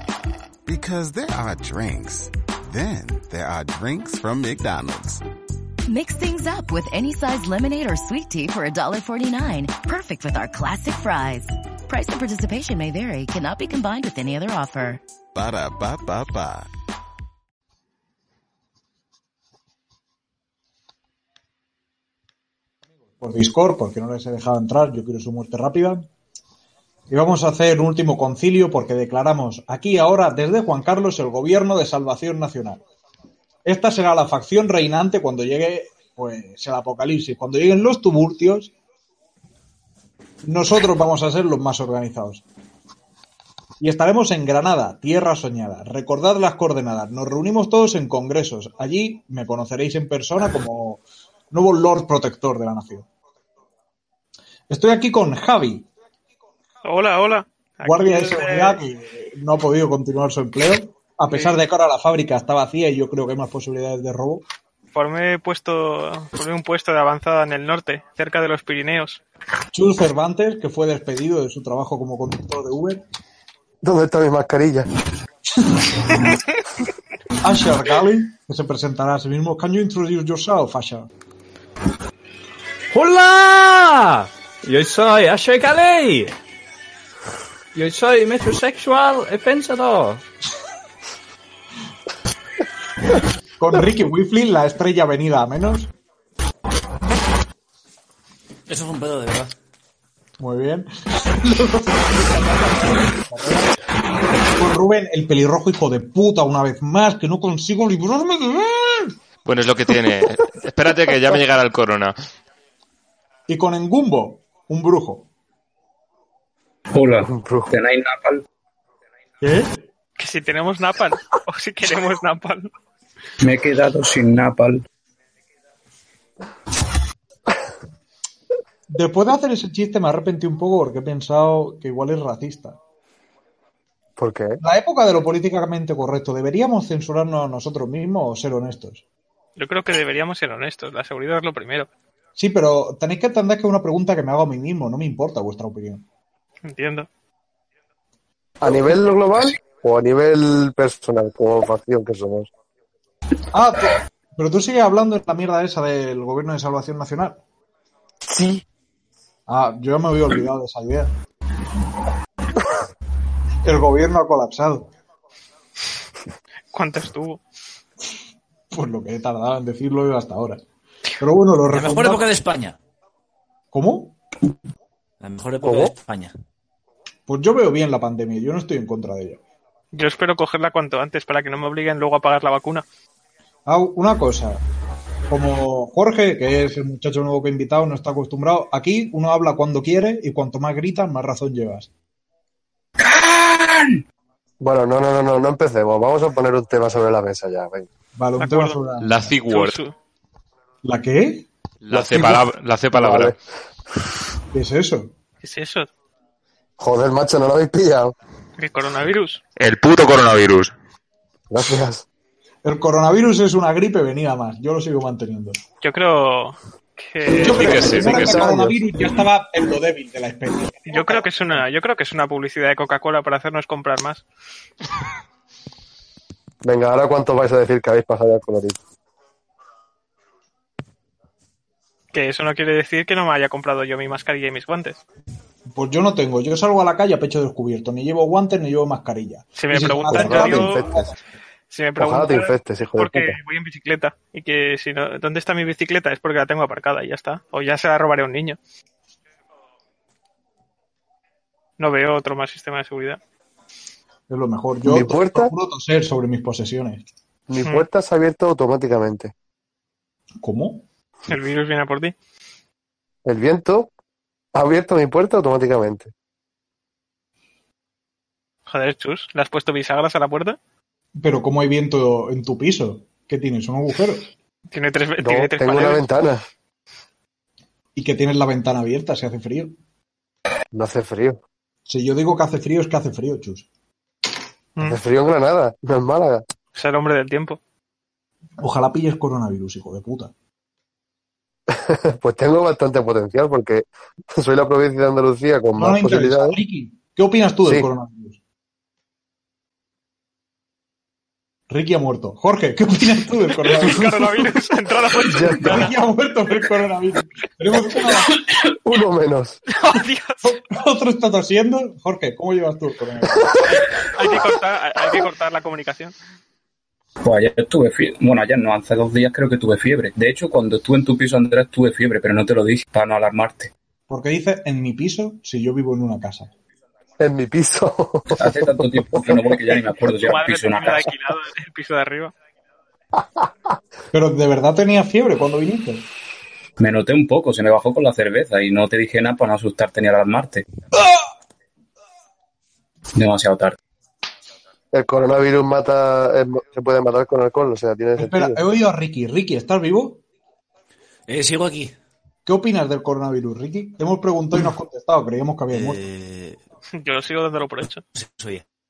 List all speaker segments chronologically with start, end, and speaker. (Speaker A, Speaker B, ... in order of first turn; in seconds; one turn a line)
Speaker A: 0.7-5.2
Speaker B: 5.9-15.0
Speaker A: 15.3-16.7
Speaker C: 23.2-26.1
Speaker C: 27.1-32.8
Speaker C: 33.6-38.7
Speaker C: 40.4-42.4
Speaker C: 43.8-51.0
Speaker C: 51.5-53.0
Speaker C: 54.7-55.9
Speaker D: 56.8-58.8
Speaker C: 57.8-64.4
Speaker D: 61.3-61.5
Speaker D: 64.9-69.2
Speaker C: 69.7-73.0
Speaker E: 73.8-74.9
Speaker C: 75.7-76.2
Speaker C: 77.4-81.1
Speaker F: 82.9-86.3
Speaker F: 87.7-90.2
Speaker C: 93.6-95.9
Speaker G: 98.7-99.5
Speaker C: 100.4-103.7
Speaker C: 104.5-109.1
Speaker H: 109.4-112.1
Speaker C: 113.5-115.3
Speaker I: 116.9-118.4
Speaker E: 117.2-117.7
Speaker C: 119.4-119.7
Speaker D: 120.2-122.7
Speaker I: 123.4-124.8
Speaker C: 128.9-132.8
Speaker E: 134.2-134.6
Speaker C: 134.6-139.0
Speaker D: 139.6-141.9
Speaker C: 142.4-146.0
Speaker D: 146.6-147.1
Speaker E: 148.6-152.5
Speaker C: 153.5-157.4
Speaker E: 158.3-158.6
Speaker C: 159.5-161.1
Speaker C: 163.6-164.9
Speaker D: 166.7-167.4
Speaker C: 168.7-170.6
Speaker C: 171.2-172.2
Speaker G: 171.7-172.8
Speaker C: 173.7-174.1
Speaker G: 175.2-176.3
Speaker E: 175.6-175.9
Speaker C: 177.3-179.4
Speaker D: 179.9-182.8
Speaker C: 183.7-184.6
Speaker C: 185.3-191.9
Speaker I: 193.0-193.9
Speaker E: 194.6-197.9
Speaker C: 198.2-199.3
Speaker D: 198.4-198.8
Speaker H: 199.0-199.8
Speaker D: 199.5-199.9
Speaker C: 200.8-201.4
Speaker H: 201.8-203.3
Speaker E: 201.9-203.3
Speaker C: 204.5-205.1
Speaker D: 205.4-205.9
Speaker E: 206.8-208.1
Speaker D: 208.6-209.4
Speaker H: 209.6-210.7
Speaker E: 211.5-212.0
Speaker C: 212.6-215.6
Speaker D: 215.8-217.9
Speaker C: 217.3-221.6
Speaker H: 217.4-218.5
Speaker E: 217.9-218.8
Speaker D: 220.9-224.2
Speaker E: 226.6-228.8
Speaker D: 232.1-235.0
Speaker C: 235.7-241.2
Speaker D: 239.5-240.8
Speaker E: 239.8-241.1
Speaker D: 241.7-248.6
Speaker E: 242.0-243.4
Speaker D: 251.8-253.2
Speaker C: 254.3-257.0
Speaker E: 254.8-255.5
Speaker E: 257.5-259.3
Speaker C: 260.4-260.8
Speaker D: 261.3-262.1
Speaker E: 263.2-263.9
Speaker E: 264.5-266.1
Speaker D: 268.7-270.6
Speaker C: 271.1-274.3
Speaker D: 274.7-276.0
Speaker E: 275.2-276.4
Speaker C: 277.9-279.8
Speaker E: 280.7-281.4
Speaker C: 281.9-283.6
Speaker E: 284.8-286.4
Speaker D: 286.7-287.6
Speaker C: 288.6-290.3
Speaker E: 291.7-296.6
Speaker C: 295.8-298.4
Speaker C: 301.7-304.5
Speaker D: 303.6-306.0
Speaker E: 305.2-305.9
Speaker C: 305.5-308.4
Speaker E: 308.8-309.6
Speaker D: 309.7-310.5
Speaker C: 310.4-313.6
Speaker D: 313.7-316.1
Speaker I: 317.2-323.7
Speaker C: 324.1-326.5
Speaker E: 327.2-329.7
Speaker I: 328.4-331.1
Speaker D: 330.1-332.3
Speaker E: 333.1-333.5
Speaker C: 334.1-336.0
Speaker I: 336.8-340.6
Speaker I: 343.1-343.8
Speaker E: 344.9-348.6
Speaker C: 348.2-350.2
Speaker G: 351.3-351.9
Speaker C: 352.4-356.0
Speaker G: 355.7-356.6
Speaker D: 356.9-358.0
Speaker G: 358.1-358.6